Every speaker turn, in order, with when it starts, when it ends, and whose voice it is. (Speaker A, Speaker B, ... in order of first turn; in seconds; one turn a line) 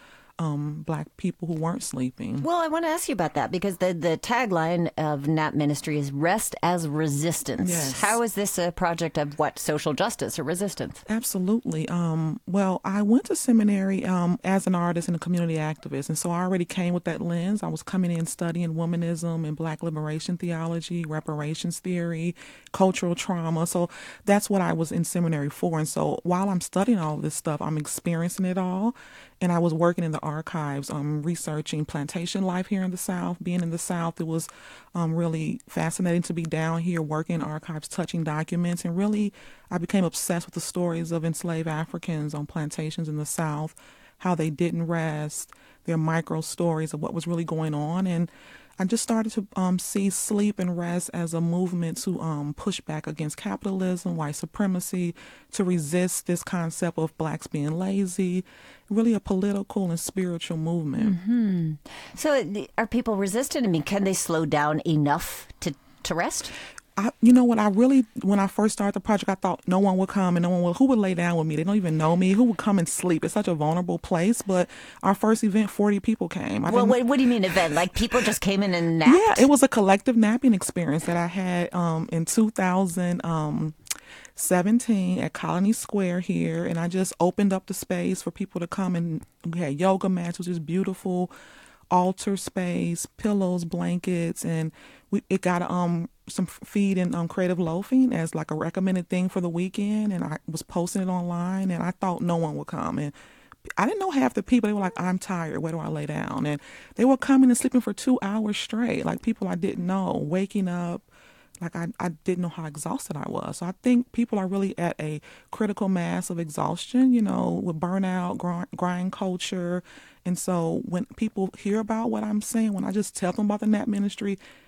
Speaker A: 0.4-2.5
Speaker B: 2.4-11.0
Speaker A: 7.6-8.2
Speaker A: 11.1-61.2
Speaker B: 61.0-66.5
Speaker A: 67.0-78.1
Speaker B: 76.7-79.5
Speaker A: 79.0-83.8
Speaker A: 84.3-91.3
Speaker A: 91.9-103.1
Speaker A: 103.8-111.1
Speaker A: 111.6-124.4